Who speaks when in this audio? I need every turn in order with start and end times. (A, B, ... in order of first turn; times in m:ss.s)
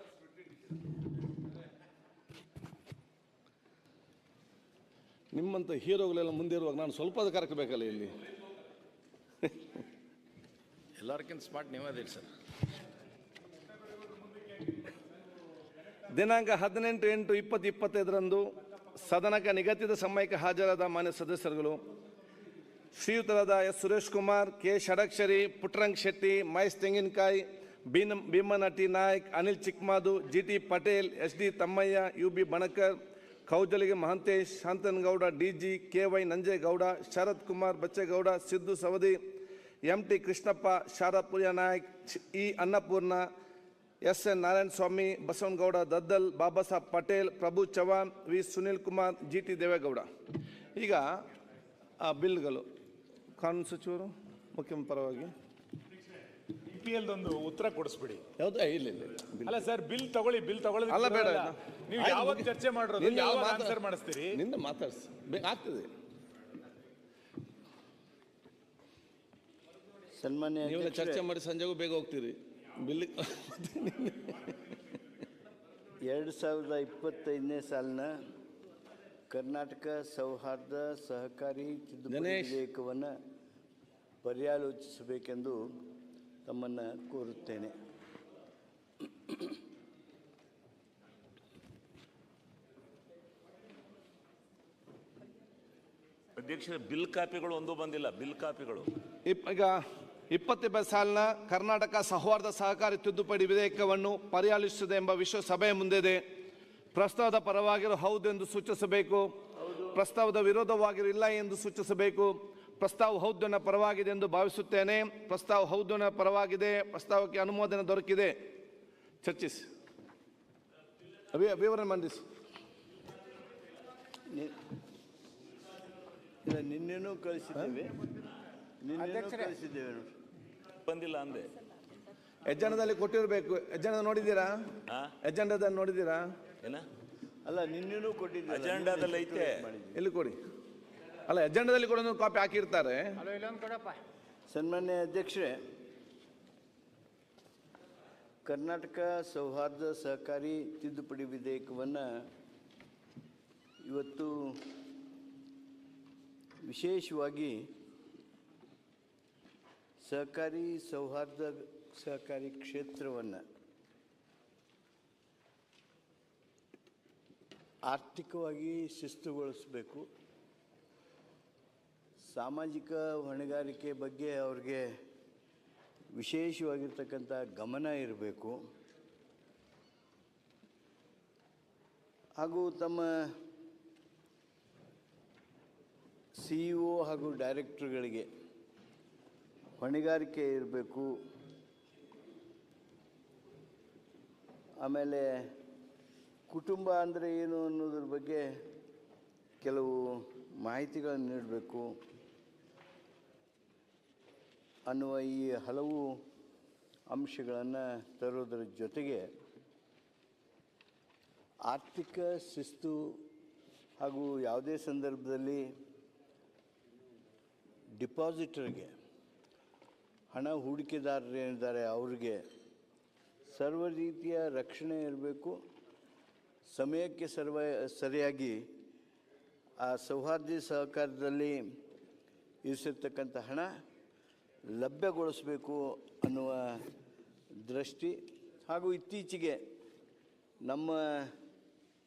0:05.3-0:08.2 A
0:11.0-0:12.3 B
0:16.1-0:18.4 A
0:19.0-0:21.8 A
0:23.0-0:33.0 A
0:33.5-0:39.2 A
0:39.9-0:43.3 A
0:44.0-0:50.1 A
0:50.8-0:51.1 A
0:52.0-0:52.7 A
0:53.4-0:55.3 A
0:56.7-0:58.2 C
0:58.4-0:59.6 A
0:59.5-1:04.4 C
1:00.9-1:03.8 A
1:04.3-1:05.9 A
1:10.1-1:11.2 D
1:10.6-1:14.4 A
1:16.0-1:18.1 D
1:19.3-1:23.1 D
1:22.1-1:22.6 A
1:24.2-1:25.6 D
1:26.4-1:27.7 D
1:36.4-1:38.9 E
1:39.3-1:39.8 A
1:40.3-1:46.2 A
1:46.9-1:49.3 A
1:49.9-1:58.4 A
1:59.2-1:59.7 A
2:01.3-2:02.2 A
2:04.3-2:04.6 D
2:06.4-2:08.0 D
2:08.8-2:10.1 D
2:10.8-2:11.6 E
2:12.4-2:16.3 A
2:17.4-2:20.0 D
2:18.5-2:19.7 E
2:20.0-2:20.4 A
2:21.3-2:23.3 A
2:23.3-2:23.9 B
2:24.5-2:25.6 D
2:28.4-2:32.0 D
2:33.8-2:34.7 D
2:36.6-2:37.7 D
2:40.0-2:43.4 D
2:47.9-2:50.1 D
2:52.2-2:54.9 D
2:56.2-2:58.6 D
3:02.4-3:03.4 D
3:06.4-3:08.3 D
3:09.8-3:11.1 D
3:14.8-3:15.6 D
3:16.5-3:18.6 D
3:19.6-3:21.9 D
3:24.9-3:26.2 D
3:27.1-3:29.3 D
3:31.7-3:33.2 D
3:34.0-3:35.6 D
3:38.0-3:38.9 D
3:40.3-3:42.4 D
3:43.5-3:45.6 D
3:46.7-3:48.7 D
3:49.8-3:51.6 D
3:52.6-3:53.7 D
3:54.7-3:56.8 D
3:57.6-3:59.6 D
4:00.6-4:01.3 D